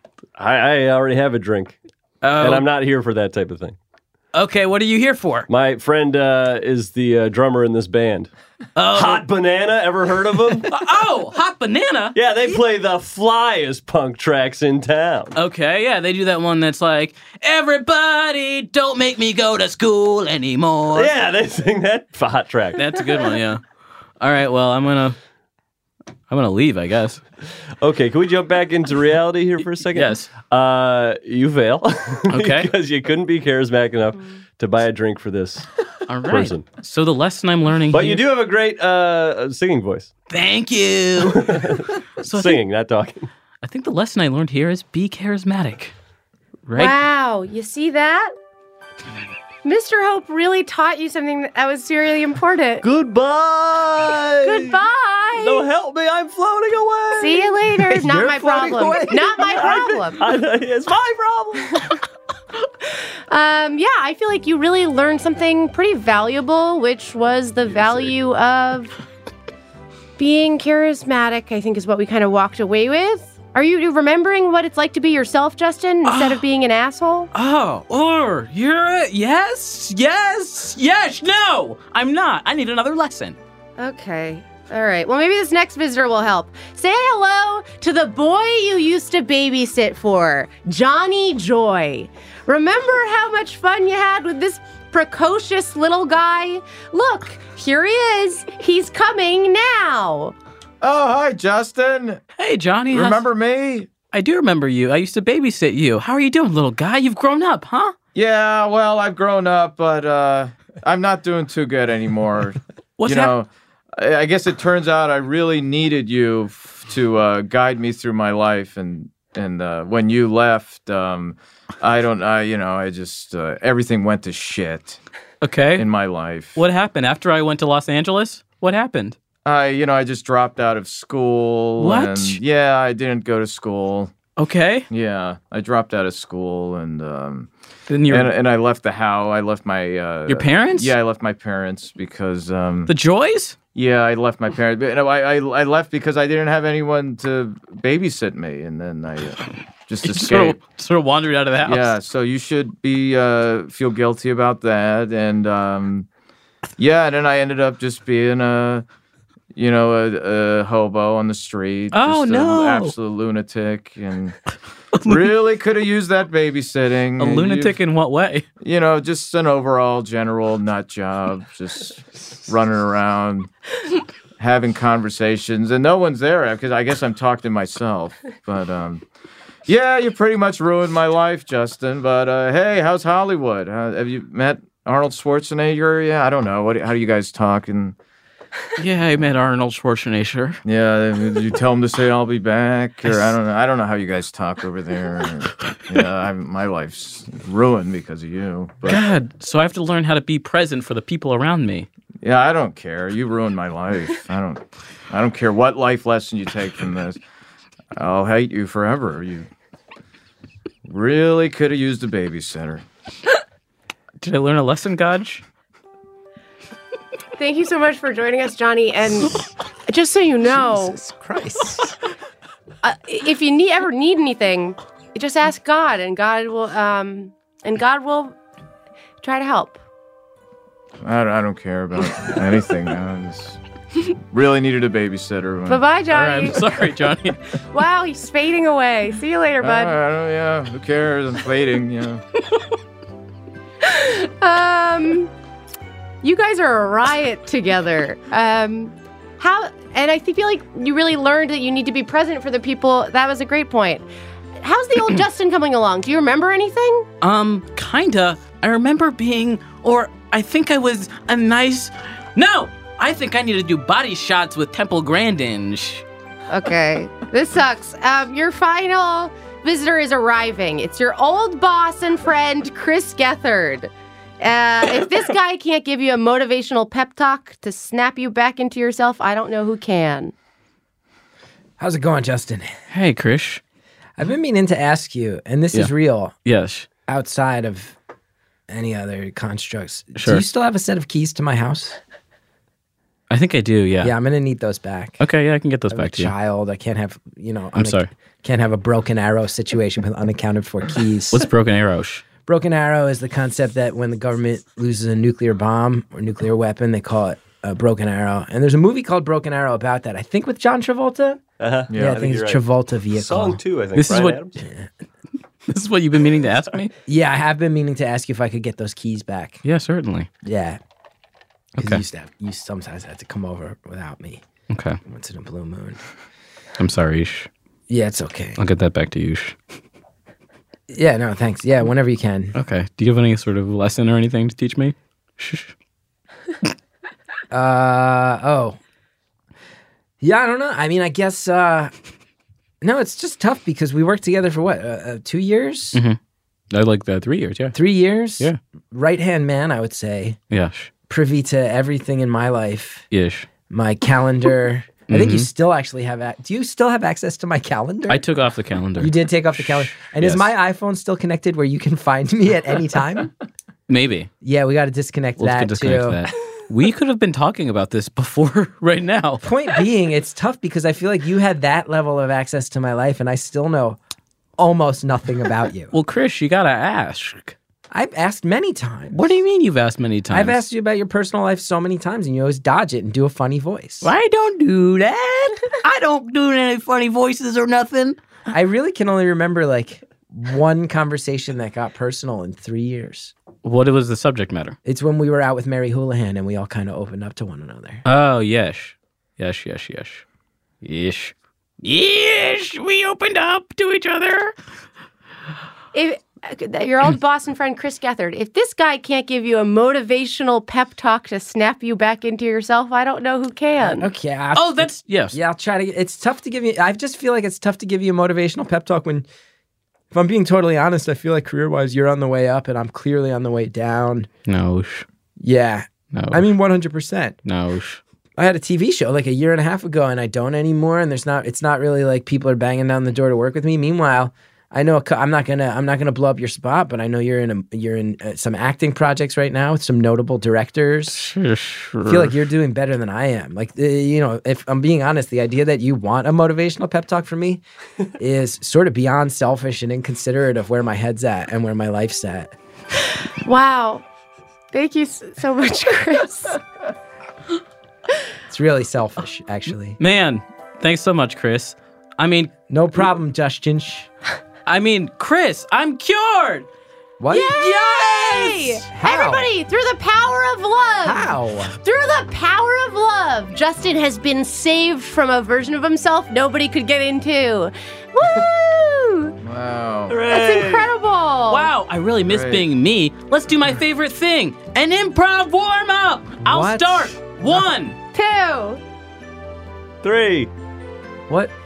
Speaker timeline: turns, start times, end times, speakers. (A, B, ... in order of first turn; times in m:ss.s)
0:00.4-0:01.8 A
0:02.2-0:02.7 B
0:02.4-0:03.8 A
0:04.3-0:05.5 B
0:05.5-0:08.3 A
0:08.8-0:09.2 B
0:08.9-0:10.7 A
0:10.7-0:12.2 B
0:12.2-0:15.4 A
0:15.4-0:21.1 B
0:20.9-0:22.9 A
0:22.8-0:23.6 B
0:24.2-0:25.2 B
0:26.3-0:27.2 B
0:27.8-0:35.7 A
0:29.9-0:30.3 B
0:32.3-0:32.7 B
0:36.1-0:38.2 B
0:36.3-0:36.6 A
0:37.9-0:40.1 A
0:40.3-0:42.6 B
0:41.2-0:43.3 A
0:43.6-0:45.9 B
0:46.7-0:47.0 B
0:46.8-0:48.3 C
0:49.6-0:52.8 C
0:52.8-0:54.8 A
0:54.4-0:55.7 C
0:55.4-0:57.6 A
0:57.2-1:00.3 C
0:57.8-0:59.5 D
0:59.4-1:01.8 A
1:03.3-1:09.0 C
1:07.7-1:08.1 A
1:10.2-1:17.3 C
1:16.0-1:16.4 B
1:17.3-1:23.4 B
1:23.8-1:40.4 C
1:40.8-1:42.2 E
1:42.4-1:43.3 B
1:42.9-1:43.9 E
1:44.1-1:48.0 B
1:48.2-2:05.0 E
1:53.0-1:53.3 B
2:05.4-2:05.9 B
2:05.8-2:06.6 E
2:06.6-2:09.2 B
2:09.4-2:14.1 E
2:11.8-2:12.4 B
2:14.4-2:14.9 B
2:14.9-2:17.5 E
2:17.9-2:18.3 B
2:18.1-2:22.9 E
2:20.3-2:20.9 B
2:22.9-2:23.6 B
2:23.8-2:30.6 E
2:30.0-2:32.0 B
2:31.6-2:36.1 E
2:36.8-2:38.8 E
2:39.6-2:44.4 E
2:41.9-2:42.9 B
2:45.0-2:45.3 B
2:45.0-2:47.8 E
2:47.2-2:48.4 B
2:48.6-2:53.5 E
2:54.4-2:59.0 E
2:59.7-3:08.0 E
3:08.8-3:10.6 B
3:10.6-3:19.0 E
3:18.9-3:21.9 B
3:22.2-3:27.2 E
3:28.0-3:29.5 E
3:30.9-3:32.8 E
3:34.2-3:35.4 B
3:37.4-3:41.0 C
3:40.5-3:42.0 D
3:42.8-3:48.4 C
3:49.2-3:49.8 C
3:51.0-3:53.6 E
3:54.3-3:55.8 E
3:55.7-3:57.1 C
3:56.1-3:57.4 B
3:57.7-4:00.0 C
3:59.6-4:02.2 E
4:03.8-4:05.3 C
4:06.2-4:14.0 C
4:14.6-4:17.1 C
4:17.2-4:26.0 B
4:26.5-4:40.3 C
4:41.8-4:42.7 D
4:42.9-4:43.6 B
4:44.2-4:46.3 D
4:46.4-4:46.9 B
4:47.1-4:48.0 D
4:48.7-4:52.0 D
4:50.2-4:50.4 B
4:53.3-4:54.1 B
4:54.0-4:55.2 D
4:55.2-4:56.3 B
4:55.9-5:01.5 D
4:57.8-4:58.1 B
5:01.3-5:02.2 B
5:02.5-5:11.4 D
5:11.6-5:14.6 A
5:11.9-5:12.2 E
5:11.9-5:13.6 D
5:14.0-5:14.4 B
5:15.7-5:16.9 B
5:17.1-5:19.6 D
5:19.6-5:20.3 B
5:20.4-5:20.8 D
5:21.8-5:22.0 B
5:21.8-5:24.4 D
5:24.7-5:25.0 B
5:25.0-5:26.0 D
5:26.8-5:27.5 B
5:27.9-5:28.6 D
5:28.6-5:29.6 B
5:30.9-5:32.5 D
5:32.6-5:35.7 B
5:37.5-5:38.8 D
5:40.2-5:41.9 D
5:42.8-5:46.0 D
5:46.7-5:47.8 B
5:47.7-5:50.4 D
5:50.5-5:50.9 B
5:51.1-5:53.0 D
5:53.1-5:53.5 B
5:53.7-5:58.2 D
5:55.1-5:55.5 B
5:58.1-6:00.5 B
5:59.0-6:03.3 D
6:03.9-6:04.3 B
6:04.4-6:06.3 D
6:05.4-6:09.4 B
6:09.4-6:14.0 D
6:14.6-6:15.9 D
6:15.9-6:17.6 B
6:17.9-6:19.2 D
6:19.1-6:20.6 B
6:20.3-6:24.1 D
6:24.0-6:28.2 B
6:28.5-6:33.3 D
6:33.6-6:34.8 B
6:34.9-6:38.0 D
6:38.1-6:40.2 B
6:40.8-6:44.5 B
6:45.9-6:54.1 C
6:53.8-6:59.3 D
6:54.6-6:55.4 B
7:00.1-7:04.3 D
7:04.5-7:05.1 B
7:05.4-7:07.4 D
7:06.1-7:06.4 B
7:07.4-7:08.0 B
7:08.4-7:21.3 D
7:21.1-7:22.3 B
7:22.0-7:27.6 D
7:28.2-7:32.5 D
7:33.4-7:34.0 C
7:34.7-7:36.6 C
7:38.5-7:40.0 D
7:40.0-7:42.5 B
7:42.7-7:44.1 D
7:44.7-7:46.7 B
7:47.2-7:47.6 D
7:47.3-7:51.3 C
7:47.6-7:48.8 B
7:48.9-7:49.5 D
7:51.0-7:51.8 D
7:51.8-7:59.3 C
7:59.4-8:00.2 E
8:00.1-8:00.9 A
8:00.3-8:01.7 C
8:01.5-8:08.0 B
8:02.3-8:02.6 E
8:06.5-8:07.1 D
8:08.1-8:08.8 C
8:10.0-8:10.5 A